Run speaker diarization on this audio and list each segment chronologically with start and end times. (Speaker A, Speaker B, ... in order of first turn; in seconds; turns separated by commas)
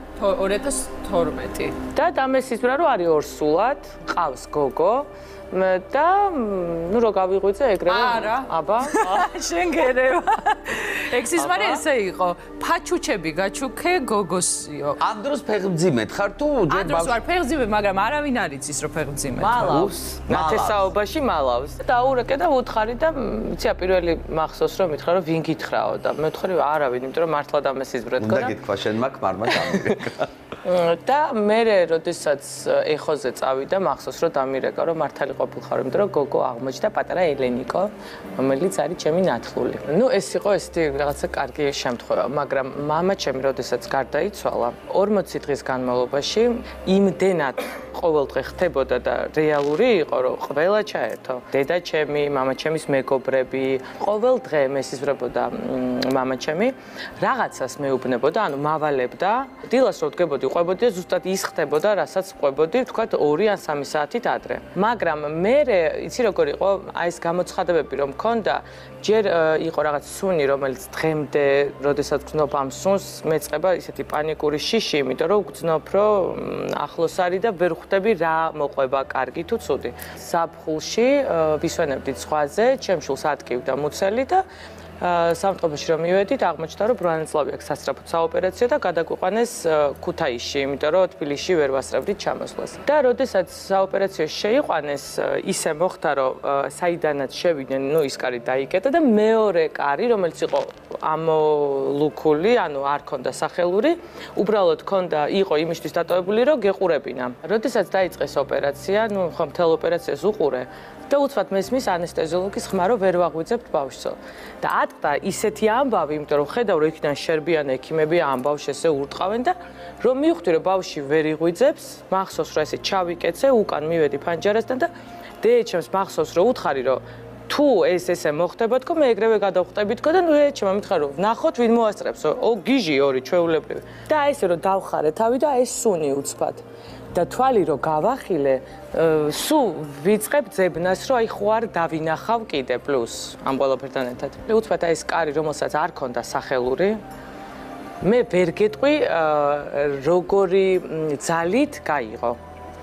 Speaker A: 0.2-1.8, Speaker B: 1.8-10.1, Speaker A: 7.9-14.7, Speaker B: 11.0-15.0, Speaker C: 15.0-17.2, Speaker A: 16.7-19.8, Speaker B: 19.3-28.6, Speaker C: 19.6-20.9, Speaker C: 28.2-30.3, Speaker B: 29.5-30.0, Speaker B: 30.6-84.4, Speaker B: 85.0-124.9, Speaker B: 125.4-147.0, Speaker B: 148.0-152.4